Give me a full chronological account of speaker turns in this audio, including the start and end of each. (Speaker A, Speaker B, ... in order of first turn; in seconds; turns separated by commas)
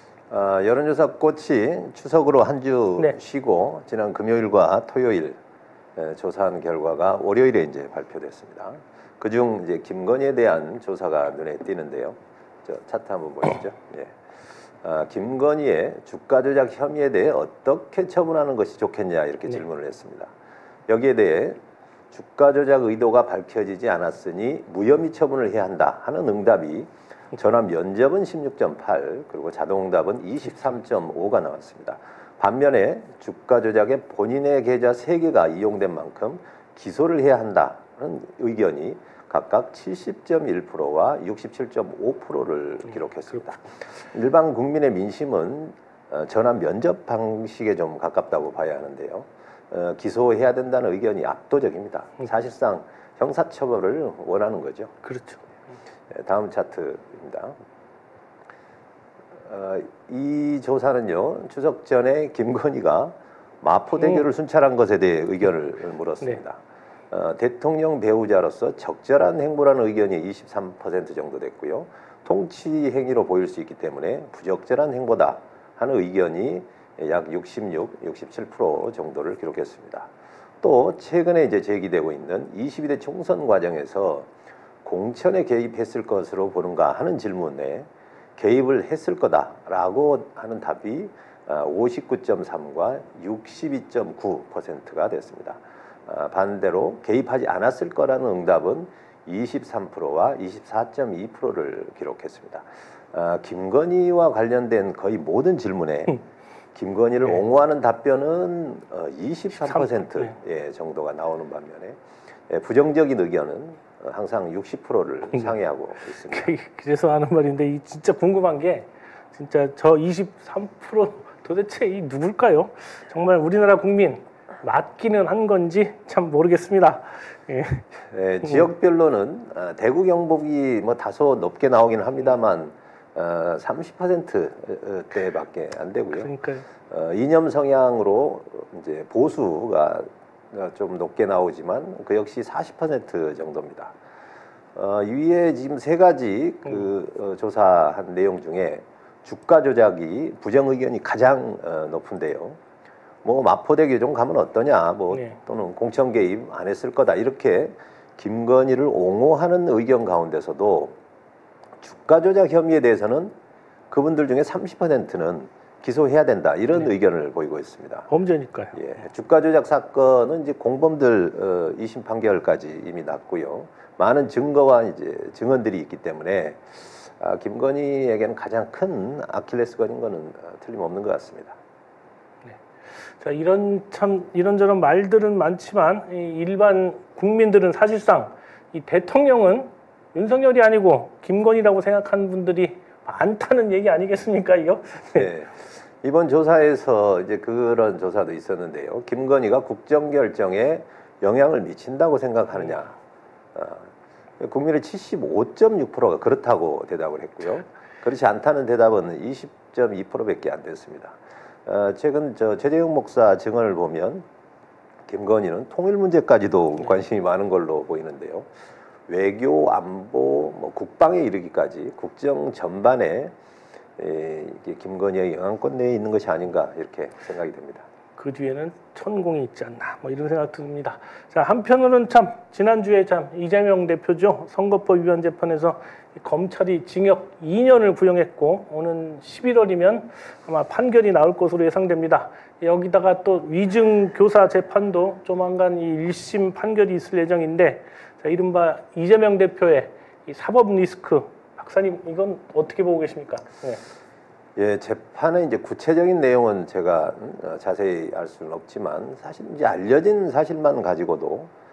Speaker A: 0.3-5.4, Speaker A: 6.0-14.2, Speaker A: 14.8-20.3, Speaker A: 20.9-21.6, Speaker A: 22.1-54.9, Speaker B: 55.0-55.4, Speaker A: 56.1-57.5, Speaker A: 59.5-84.3, Speaker B: 64.0-64.2, Speaker A: 84.8-106.2, Speaker A: 106.7-116.5, Speaker B: 109.6-110.3, Speaker B: 116.3-127.8, Speaker A: 128.1-136.3, Speaker B: 136.2-136.6, Speaker A: 136.9-143.9, Speaker A: 144.7-152.6, Speaker A: 153.2-160.9, Speaker B: 155.1-155.4, Speaker A: 161.8-163.3, Speaker A: 163.9-168.1, Speaker B: 168.1-168.8, Speaker A: 168.7-181.6, Speaker B: 182.5-195.3, Speaker A: 195.1-202.9, Speaker A: 203.5-214.2, Speaker A: 215.1-218.5, Speaker A: 219.1-223.3, Speaker A: 224.0-227.8, Speaker B: 228.2-253.8, Speaker A: 254.6-261.5